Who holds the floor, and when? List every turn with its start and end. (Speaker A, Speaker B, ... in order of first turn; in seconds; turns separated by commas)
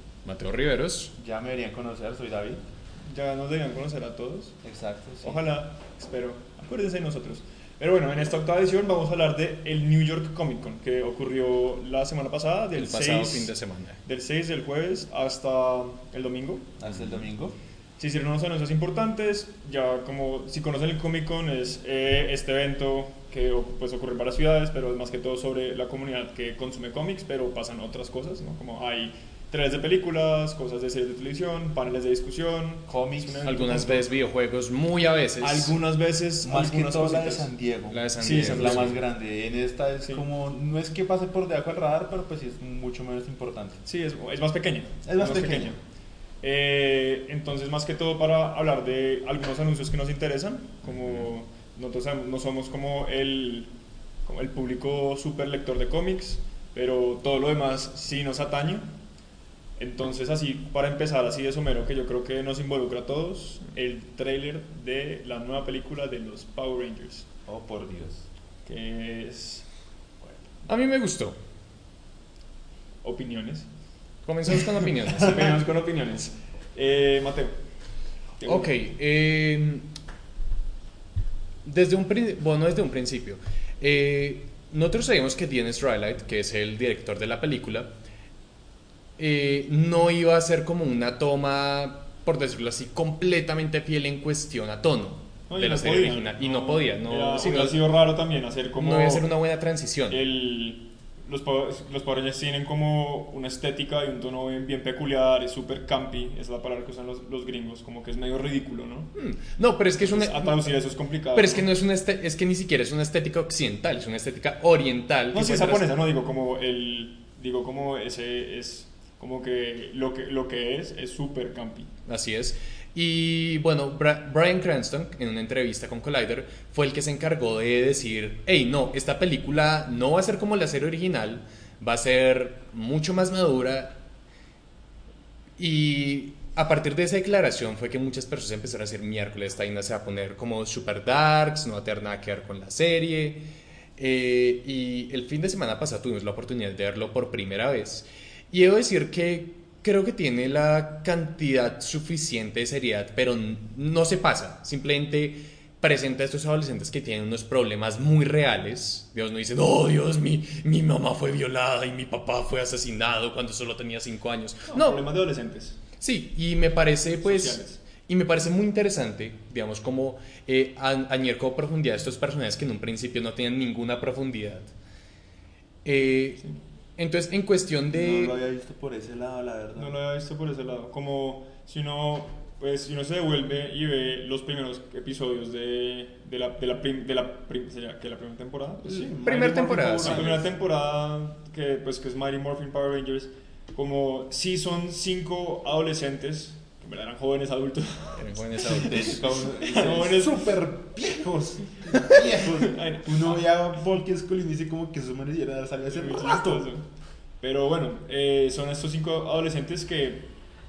Speaker A: 0.2-1.1, Speaker B: 1.2-2.6, Speaker C: 3.1-4.6, Speaker B: 4.6-5.4, Speaker C: 5.2-13.5, Speaker A: 12.8-14.0, Speaker C: 14.0-16.6, Speaker B: 16.8-17.6, Speaker C: 18.0-34.1, Speaker B: 32.9-33.5, Speaker A: 33.4-35.8, Speaker C: 35.4-37.5, Speaker B: 36.4-43.8, Speaker A: 37.9-39.0, Speaker C: 38.2-39.0, Speaker C: 43.8-45.8, Speaker B: 45.0-45.7, Speaker C: 46.4-53.7, Speaker A: 50.9-51.3, Speaker C: 54.2-58.9, Speaker C: 59.8-67.2, Speaker B: 67.5-68.2, Speaker C: 68.6-69.7, Speaker A: 70.7-71.4, Speaker C: 73.0-73.7, Speaker A: 74.2-75.6, Speaker C: 74.8-77.5, Speaker C: 78.4-78.7, Speaker A: 78.4-79.9, Speaker A: 81.6-87.9, Speaker A: 89.2-98.0, Speaker C: 95.5-99.3, Speaker A: 98.7-100.2, Speaker C: 100.1-109.1, Speaker A: 109.2-110.8, Speaker C: 110.0-111.7, Speaker A: 111.3-116.0, Speaker C: 115.3-121.9, Speaker A: 122.1-134.0, Speaker A: 135.6-143.4, Speaker A: 144.0-165.0, Speaker C: 164.7-165.8, Speaker A: 166.0-174.7, Speaker C: 167.2-167.8, Speaker A: 175.8-176.4, Speaker A: 177.0-178.3, Speaker B: 177.9-179.9, Speaker C: 179.8-189.2, Speaker B: 188.8-190.4, Speaker A: 189.2-190.4, Speaker C: 190.0-200.4, Speaker A: 198.2-199.2, Speaker B: 198.7-206.7, Speaker C: 202.2-203.4, Speaker C: 205.9-206.8, Speaker C: 207.4-210.3